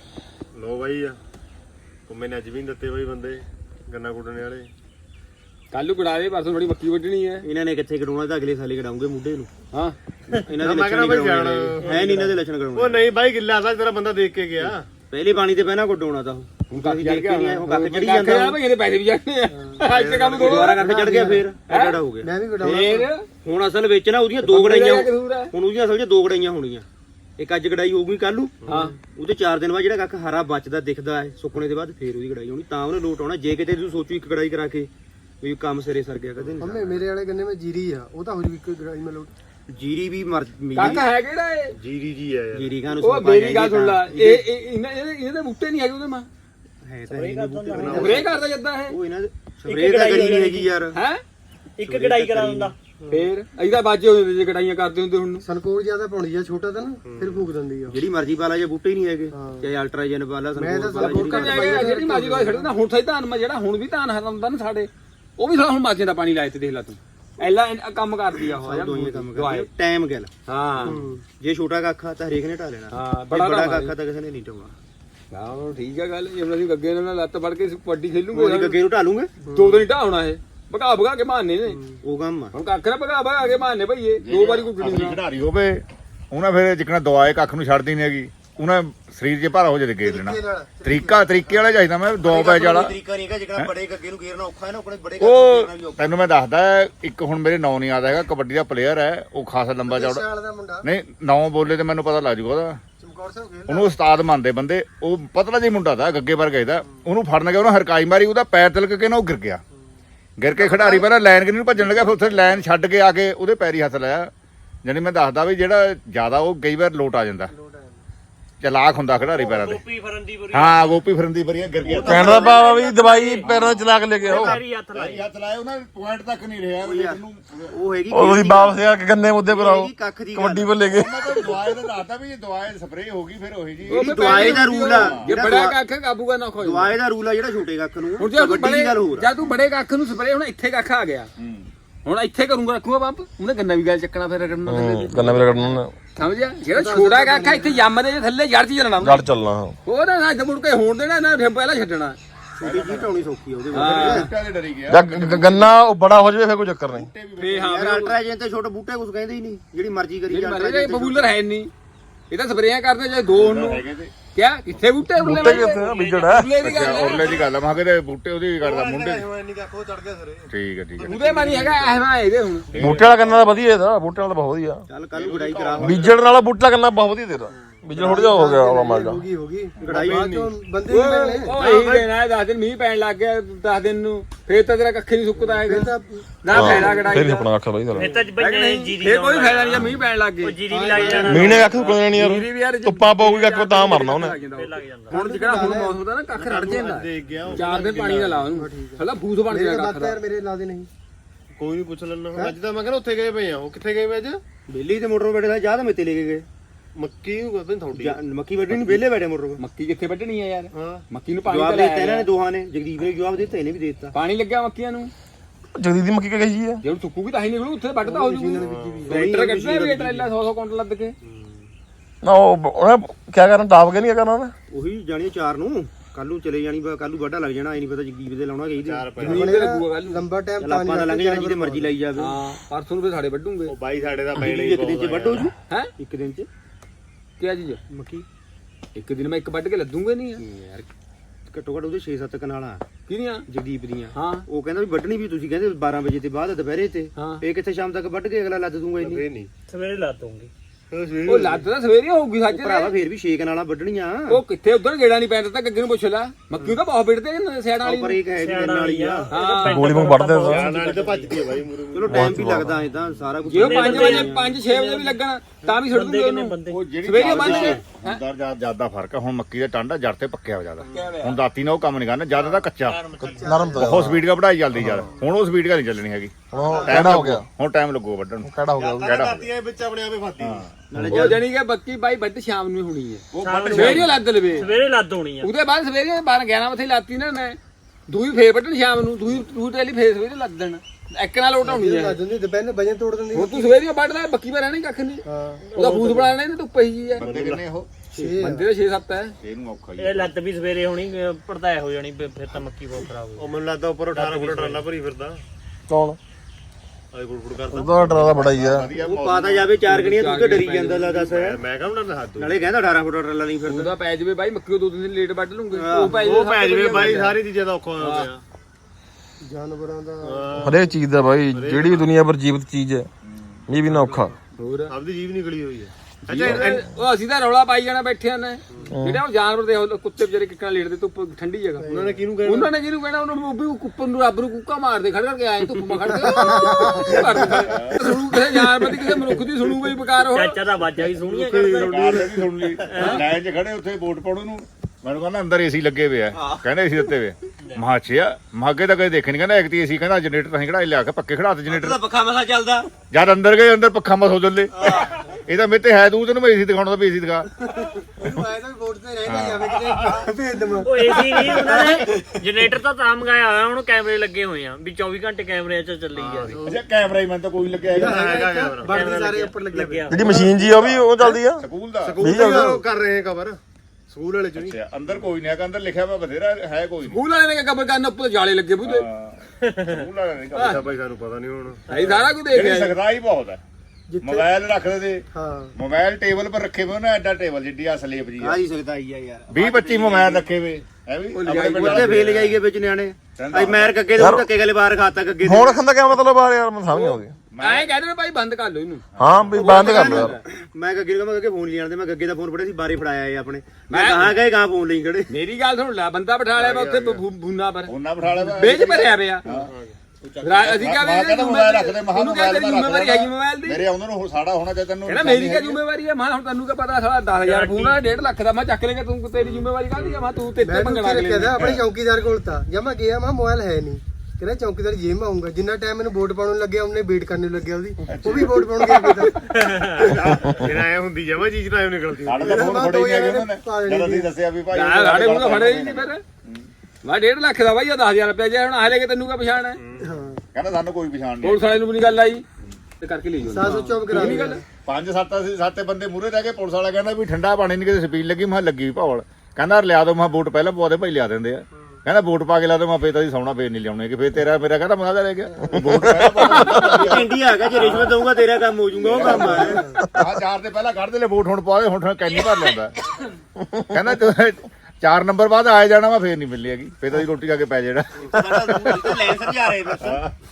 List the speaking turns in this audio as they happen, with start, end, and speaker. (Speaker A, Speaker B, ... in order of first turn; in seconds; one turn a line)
Speaker A: 0.5-1.2
Speaker A: 2.1-4.7
Speaker B: 5.7-7.4
Speaker C: 7.4-9.5
Speaker C: 10.4-13.1
Speaker A: 10.5-14.9
Speaker C: 14.6-18.6
Speaker B: 16.7-21.0
Speaker D: 19.5-19.9
Speaker A: 19.8-20.8
Speaker C: 20.4-26.9
Speaker D: 20.8-21.6
Speaker B: 21.7-22.0
Speaker D: 22.2-23.1
Speaker B: 22.6-23.3
Speaker B: 24.4-25.5
Speaker C: 27.4-34.9
Speaker B: 28.7-28.9
Speaker C: 35.4-37.1
Speaker D: 36.6-39.3
Speaker C: 39.7-41.0
Speaker B: 40.8-41.7
Speaker A: 41.7-42.9
Speaker C: 42.5-44.5
Speaker B: 43.0-46.3
Speaker C: 46.8-51.0
Speaker E: 47.1-48.3
Speaker D: 47.8-48.2
Speaker B: 47.9-49.0
Speaker E: 49.7-50.7
Speaker B: 50.9-51.2
Speaker E: 51.8-52.8
Speaker C: 51.8-52.7
Speaker D: 53.0-53.3
Speaker B: 53.1-55.4
Speaker D: 55.4-58.0
Speaker A: 57.0-57.5
Speaker C: 57.1-62.0
Speaker D: 59.3-59.7
Speaker D: 60.5-62.8
Speaker B: 61.0-69.7
Speaker C: 68.6-70.3
Speaker B: 70.5-71.0
Speaker C: 70.8-74.8
Speaker D: 70.8-71.2
Speaker B: 72.9-74.0
Speaker B: 75.3-78.8
Speaker C: 78.3-79.4
Speaker D: 79.4-79.8
Speaker B: 79.5-81.8
Speaker D: 81.7-82.0
Speaker C: 82.0-82.5
Speaker B: 82.5-85.2
Speaker F: 84.2-93.0
Speaker D: 90.0-91.7
Speaker C: 92.2-96.1
Speaker F: 95.2-100.2
Speaker D: 99.9-100.9
Speaker F: 100.8-102.8
Speaker D: 103.0-104.0
Speaker F: 103.7-109.6
Speaker F: 110.4-114.3
Speaker D: 110.6-111.1
Speaker D: 111.9-112.4
Speaker F: 114.8-117.5
Speaker D: 117.5-118.0
Speaker F: 118.6-119.8
Speaker E: 119.3-121.0
Speaker F: 120.5-122.5
Speaker E: 121.8-125.3
Speaker G: 122.1-124.6
Speaker A: 122.2-122.6
Speaker F: 123.4-123.9
Speaker F: 124.9-127.8
Speaker C: 126.8-130.8
Speaker G: 128.1-131.2
Speaker F: 130.8-135.4
Speaker C: 133.9-135.8
Speaker B: 133.9-137.0
Speaker C: 136.6-139.3
Speaker B: 138.2-141.3
Speaker F: 141.4-141.7
Speaker B: 142.0-145.5
Speaker G: 144.7-145.9
Speaker B: 146.2-149.3
Speaker D: 146.7-147.8
Speaker G: 149.0-149.8
Speaker B: 149.8-152.2
Speaker C: 152.6-154.3
Speaker F: 152.6-155.9
Speaker B: 153.7-154.3
Speaker G: 154.9-157.1
Speaker F: 156.9-157.7
Speaker B: 157.4-158.2
Speaker C: 157.6-161.3
Speaker B: 160.3-161.7
Speaker B: 162.3-167.2
Speaker F: 163.3-164.1
Speaker G: 165.2-166.5
Speaker E: 165.6-166.3
Speaker F: 166.6-169.3
Speaker E: 166.8-167.5
Speaker A: 168.6-172.1
Speaker F: 170.5-171.2
Speaker B: 171.1-172.8
Speaker A: 172.7-173.6
Speaker F: 172.8-173.3
Speaker G: 172.8-174.8
Speaker C: 174.9-176.2
Speaker A: 175.1-176.2
Speaker G: 175.8-179.2
Speaker A: 177.5-177.9
Speaker D: 177.9-181.6
Speaker C: 179.8-180.5
Speaker B: 180.9-187.5
Speaker C: 181.6-182.1
Speaker D: 185.6-187.2
Speaker G: 186.5-188.1
Speaker E: 187.9-189.9
Speaker B: 188.4-190.6
Speaker E: 190.4-192.0
Speaker D: 190.7-191.4
Speaker A: 191.2-191.8
Speaker G: 191.2-194.4
Speaker B: 191.9-200.2
Speaker E: 194.4-195.2
Speaker D: 195.1-196.0
Speaker A: 196.3-198.5
Speaker D: 198.5-200.9
Speaker A: 201.5-204.4
Speaker C: 204.7-206.4
Speaker A: 206.9-208.2
Speaker C: 207.9-209.6
Speaker B: 208.7-209.0
Speaker B: 209.6-212.3
Speaker A: 210.7-211.0
Speaker C: 211.4-214.1
Speaker B: 214.1-215.1
Speaker G: 215.8-216.8
Speaker B: 216.8-221.1
Speaker D: 218.0-219.2
Speaker A: 218.5-219.2
Speaker C: 219.1-220.3
Speaker A: 221.2-221.7
Speaker G: 222.2-224.5
Speaker C: 224.7-229.4
Speaker A: 228.8-229.6
Speaker B: 229.2-230.3
Speaker D: 229.2-231.9
Speaker C: 230.6-232.4
Speaker B: 232.1-233.8
Speaker A: 233.7-235.5
Speaker C: 234.3-236.5
Speaker B: 237.4-237.8
Speaker C: 237.9-238.2
Speaker B: 238.9-240.4
Speaker C: 240.4-240.9
Speaker C: 241.5-242.8
Speaker B: 243.1-243.4
Speaker C: 243.5-249.2
Speaker B: 244.1-244.4
Speaker B: 247.2-247.4
Speaker A: 249.0-249.5
Speaker E: 249.7-250.5
Speaker A: 250.9-251.6
Speaker B: 251.2-252.9
Speaker C: 252.4-254.4
Speaker B: 254.3-258.2
Speaker C: 257.8-259.3
Speaker E: 258.4-261.5
Speaker B: 259.3-260.0
Speaker G: 259.6-260.7
Speaker A: 260.5-262.4
Speaker C: 261.9-264.6
Speaker G: 262.1-262.8
Speaker B: 263.5-268.2
Speaker E: 263.5-265.2
Speaker E: 265.7-267.8
Speaker F: 266.7-273.0
Speaker B: 270.9-271.4
Speaker E: 272.4-273.6
Speaker A: 273.2-273.8
Speaker G: 273.2-274.2
Speaker D: 273.3-273.9
Speaker F: 273.8-276.3
Speaker G: 274.8-275.0
Speaker G: 276.5-277.4
Speaker A: 276.6-277.0
Speaker C: 276.6-277.1
Speaker F: 276.9-279.5
Speaker G: 278.4-279.1
Speaker A: 278.8-280.7
Speaker F: 280.4-280.7
Speaker C: 280.9-281.4
Speaker G: 281.0-281.3
Speaker B: 281.1-284.7
Speaker F: 283.3-284.7
Speaker E: 283.4-283.9
Speaker D: 283.6-284.0
Speaker E: 284.5-285.5
Speaker B: 285.4-292.2
Speaker D: 291.6-293.8
Speaker B: 293.3-295.2
Speaker D: 295.2-295.6
Speaker E: 295.6-296.4
Speaker B: 295.8-297.2
Speaker F: 297.2-297.9
Speaker C: 297.2-297.6
Speaker D: 298.1-298.7
Speaker B: 298.1-299.4
Speaker F: 299.4-300.3
Speaker E: 300.0-303.5
Speaker A: 303.4-305.4
Speaker E: 304.1-304.8
Speaker G: 305.9-306.2
Speaker A: 307.1-308.5
Speaker G: 307.7-308.9
Speaker F: 307.9-309.7
Speaker C: 308.9-311.6
Speaker B: 309.9-311.2
Speaker A: 310.9-312.7
Speaker C: 312.4-314.0
Speaker B: 313.7-317.4
Speaker C: 315.7-316.2
Speaker A: 316.1-318.4
Speaker B: 318.0-318.3
Speaker D: 319.4-320.9
Speaker A: 320.2-320.8
Speaker G: 320.6-323.1
Speaker A: 321.5-322.2
Speaker F: 323.2-323.7
Speaker G: 323.7-324.3
Speaker A: 323.8-324.3
Speaker B: 324.6-324.9
Speaker A: 324.9-326.8
Speaker B: 326.2-331.9
Speaker G: 328.9-329.2
Speaker D: 331.8-332.3
Speaker A: 331.9-332.8
Speaker B: 332.4-340.6
Speaker D: 336.3-337.6
Speaker F: 337.4-338.1
Speaker E: 340.3-343.2
Speaker A: 341.0-342.2
Speaker F: 341.8-352.0
Speaker C: 346.4-346.7
Speaker C: 351.7-352.9
Speaker F: 353.1-357.5
Speaker C: 354.8-355.1
Speaker D: 357.8-361.9
Speaker F: 359.2-360.2
Speaker E: 360.8-366.6
Speaker A: 366.1-366.8
Speaker F: 366.6-368.2
Speaker A: 367.9-369.1
Speaker D: 368.0-370.6
Speaker E: 368.8-370.5
Speaker G: 370.1-371.6
Speaker F: 370.6-372.3
Speaker A: 372.0-375.3
Speaker G: 372.2-372.8
Speaker F: 374.6-377.2
Speaker B: 377.1-379.0
Speaker F: 378.8-380.9
Speaker E: 379.6-380.0
Speaker B: 380.6-380.8
Speaker A: 380.6-381.8
Speaker E: 381.9-382.3
Speaker B: 381.9-383.0
Speaker F: 382.5-383.6
Speaker D: 384.1-384.5
Speaker F: 384.2-385.2
Speaker D: 385.3-385.7
Speaker F: 385.8-388.6
Speaker C: 388.4-390.5
Speaker F: 389.5-392.6
Speaker B: 391.3-392.3
Speaker C: 391.5-395.8
Speaker F: 393.4-394.0
Speaker G: 394.2-394.5
Speaker G: 395.4-397.3
Speaker B: 396.9-399.1
Speaker F: 397.5-397.9
Speaker F: 399.2-399.6
Speaker G: 399.2-400.4
Speaker C: 399.6-405.3
Speaker B: 399.6-400.3
Speaker B: 403.9-404.4
Speaker B: 405.3-407.9
Speaker A: 406.6-407.2
Speaker F: 407.9-408.9
Speaker B: 408.6-409.4
Speaker F: 409.4-409.7
Speaker A: 409.7-410.0
Speaker C: 410.2-410.8
Speaker B: 410.4-413.9
Speaker F: 410.5-415.8
Speaker B: 415.1-421.7
Speaker E: 417.4-418.0
Speaker A: 419.4-420.3
Speaker D: 420.6-429.4
Speaker F: 428.1-428.8
Speaker B: 428.9-429.3
Speaker E: 429.6-430.4
Speaker A: 430.2-432.7
Speaker F: 432.2-436.7
Speaker D: 432.5-434.3
Speaker B: 434.7-436.2
Speaker B: 437.0-439.8
Speaker A: 439.8-440.1
Speaker D: 440.0-440.4
Speaker F: 440.5-441.6
Speaker B: 441.4-442.4
Speaker B: 443.0-444.6
Speaker D: 443.4-444.6
Speaker F: 444.9-458.3
Speaker G: 456.0-456.9
Speaker B: 456.4-456.8
Speaker C: 456.9-459.9
Speaker F: 459.0-462.9
Speaker F: 463.9-469.4
Speaker C: 468.2-470.2
Speaker F: 470.0-470.3